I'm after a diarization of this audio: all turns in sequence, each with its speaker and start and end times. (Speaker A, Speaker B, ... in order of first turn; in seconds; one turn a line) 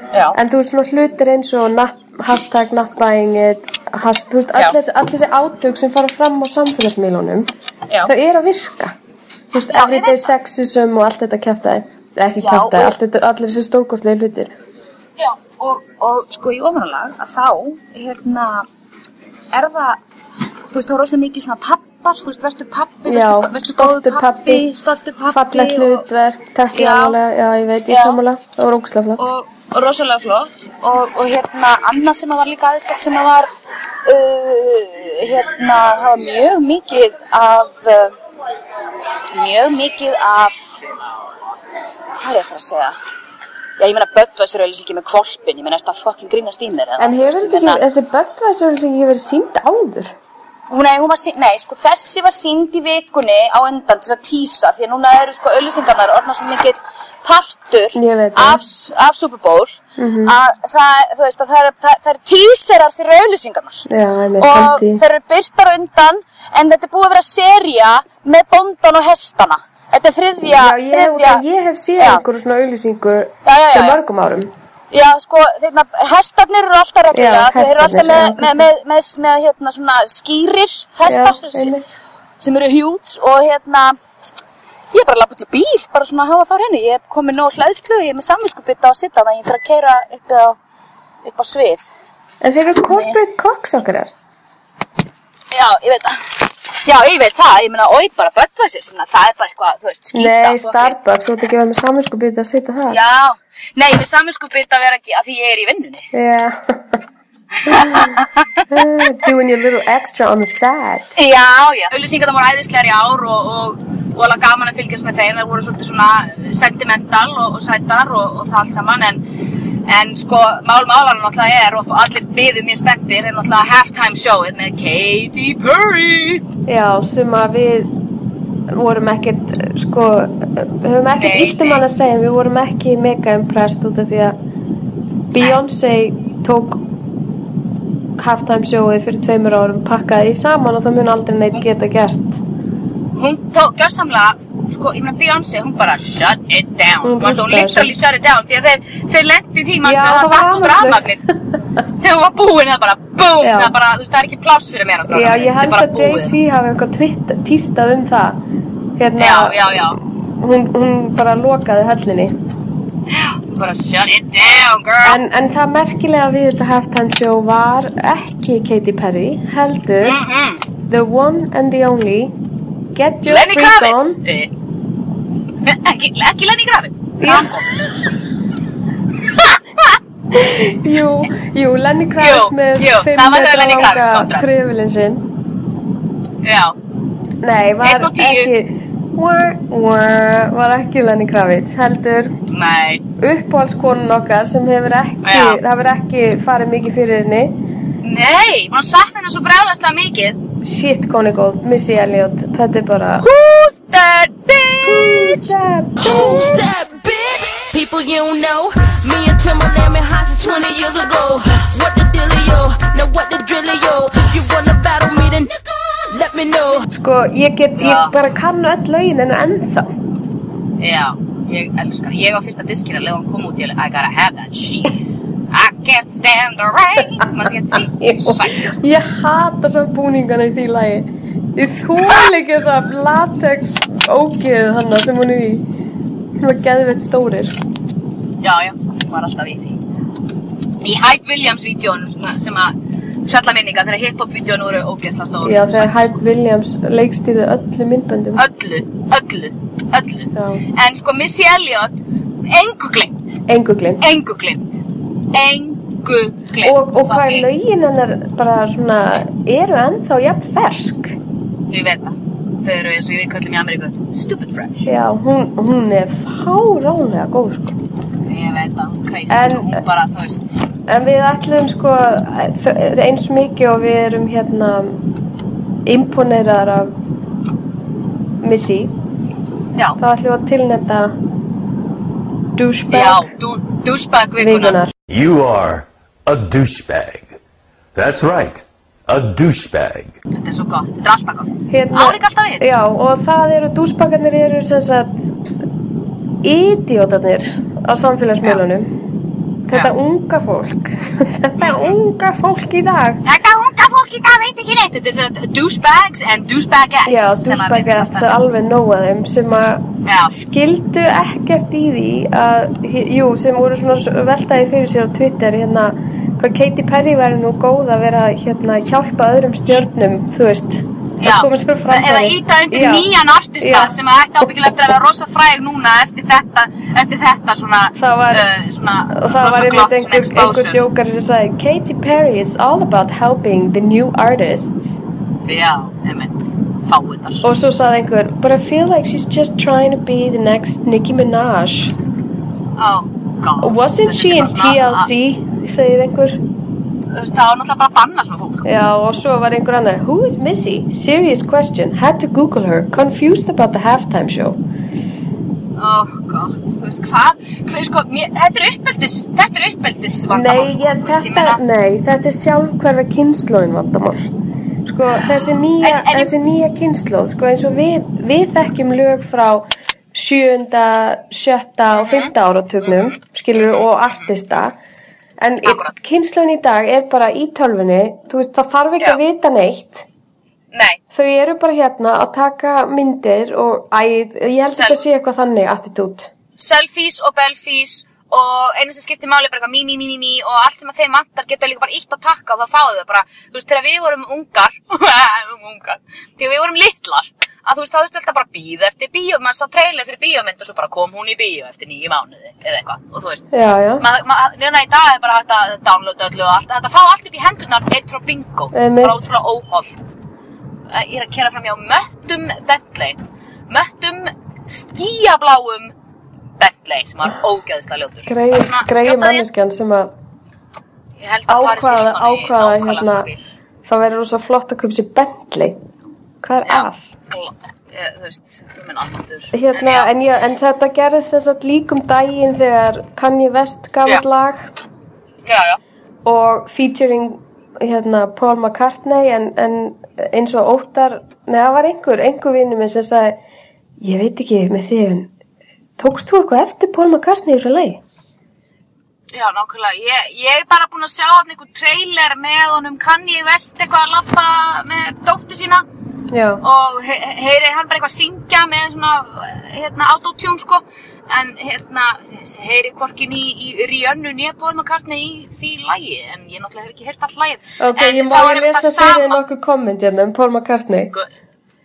Speaker A: 0.1-0.4
Speaker B: 0.3-7.5
Speaker B: 8.0-8.9
Speaker B: 9.5-14.5
Speaker A: 9.7-10.3
Speaker A: 12.4-12.9
Speaker A: 15.2-18.6
Speaker A: 19.5-20.0
Speaker A: 20.7-26.1
Speaker B: 23.1-24.6
Speaker B: 25.3-29.2
Speaker A: 26.7-27.2
Speaker A: 27.9-28.2
Speaker A: 29.2-33.5
Speaker A: 34.0-38.1
Speaker A: 39.3-40.7
Speaker A: 42.2-43.0
Speaker A: 43.8-47.8
Speaker B: 47.0-50.1
Speaker A: 50.7-63.9
Speaker B: 57.9-58.6
Speaker B: 60.0-60.3
Speaker B: 63.9-65.0
Speaker A: 64.4-71.4
Speaker B: 70.5-74.5
Speaker A: 73.4-74.0
Speaker A: 74.9-81.7
Speaker B: 77.1-78.7
Speaker B: 81.0-81.8
Speaker A: 82.4-84.0
Speaker A: 84.9-90.6
Speaker A: 91.2-91.9
Speaker B: 92.4-94.1
Speaker A: 92.9-93.2
Speaker A: 95.5-101.0
Speaker B: 100.1-103.0
Speaker A: 102.9-106.1
Speaker B: 106.1-107.0
Speaker A: 107.6-109.0
Speaker B: 107.7-108.1
Speaker B: 108.7-111.1
Speaker A: 111.2-119.2
Speaker A: 119.8-126.4
Speaker B: 126.7-127.9
Speaker B: 128.7-134.4
Speaker A: 131.2-131.8
Speaker B: 135.3-136.8
Speaker B: 138.2-142.4
Speaker A: 143.1-151.2
Speaker B: 147.0-147.9
Speaker B: 149.8-151.3
Speaker A: 152.0-156.3
Speaker B: 153.4-153.7
Speaker B: 155.1-158.4
Speaker B: 159.0-162.3
Speaker A: 159.2-160.0
Speaker A: 163.1-165.2
Speaker B: 165.0-170.2
Speaker A: 170.0-170.6
Speaker B: 170.9-172.3
Speaker B: 172.9-174.2
Speaker A: 173.2-174.5
Speaker A: 175.6-177.8
Speaker B: 177.2-177.6
Speaker A: 179.3-179.9
Speaker B: 180.3-185.2
Speaker A: 182.2-184.5
Speaker A: 186.4-186.8
Speaker B: 187.4-192.3
Speaker A: 187.8-188.5
Speaker A: 192.5-193.0
Speaker B: 193.2-197.6
Speaker A: 195.2-195.6
Speaker A: 198.0-200.4
Speaker B: 200.6-203.2
Speaker A: 203.2-205.5
Speaker B: 204.8-206.6
Speaker C: 206.0-216.9
Speaker B: 216.9-219.9
Speaker A: 217.7-218.2
Speaker A: 220.8-225.0
Speaker A: 225.5-228.8
Speaker B: 227.9-235.7
Speaker B: 236.4-237.6
Speaker A: 238.4-239.8
Speaker A: 240.8-242.7
Speaker A: 243.2-246.1
Speaker B: 245.4-248.4
Speaker A: 248.3-253.4
Speaker B: 250.3-250.6
Speaker B: 253.5-254.0
Speaker A: 254.0-254.8
Speaker A: 255.3-257.5
Speaker B: 256.6-261.1
Speaker A: 261.7-264.9
Speaker B: 264.9-267.8
Speaker A: 268.2-270.6
Speaker B: 269.3-269.8
Speaker B: 270.9-275.0
Speaker B: 275.9-276.9
Speaker B: 278.4-278.9
Speaker B: 280.0-281.1
Speaker B: 282.6-283.3
Speaker A: 282.9-284.8
Speaker B: 284.4-284.9
Speaker D: 285.1-287.4
Speaker D: 287.9-290.1
Speaker A: 290.3-292.6
Speaker B: 291.7-295.3
Speaker B: 296.4-298.9
Speaker B: 299.7-303.2
Speaker A: 301.6-301.9
Speaker A: 303.2-308.3
Speaker B: 307.1-323.1
Speaker A: 310.0-310.3
Speaker A: 321.2-330.8
Speaker B: 323.6-323.9
Speaker B: 328.0-328.4
Speaker B: 329.1-335.0
Speaker A: 335.4-337.4
Speaker B: 337.4-341.9
Speaker A: 342.8-345.1
Speaker B: 343.6-346.4
Speaker A: 347.1-348.7
Speaker B: 348.6-354.6
Speaker A: 355.8-361.6
Speaker B: 360.3-364.3
Speaker B: 364.9-374.7
Speaker A: 365.8-366.3
Speaker A: 371.9-372.3
Speaker A: 372.8-374.3
Speaker B: 375.4-380.1
Speaker A: 375.6-375.9
Speaker A: 380.7-381.0
Speaker B: 381.1-386.3
Speaker A: 384.7-385.0
Speaker A: 386.6-403.5
Speaker B: 403.5-404.0
Speaker A: 404.0-410.1
Speaker B: 408.7-409.2
Speaker A: 410.9-415.9
Speaker A: 416.6-419.5
Speaker B: 418.2-420.1
Speaker A: 421.2-423.6
Speaker B: 421.5-423.3
Speaker B: 423.8-425.8
Speaker B: 426.4-427.1
Speaker A: 426.6-430.1
Speaker B: 429.5-434.7
Speaker A: 435.4-435.8
Speaker B: 436.2-443.4
Speaker B: 444.0-445.3
Speaker B: 446.0-448.0
Speaker A: 449.3-455.8
Speaker B: 456.3-456.6
Speaker A: 456.6-469.4
Speaker B: 467.8-471.1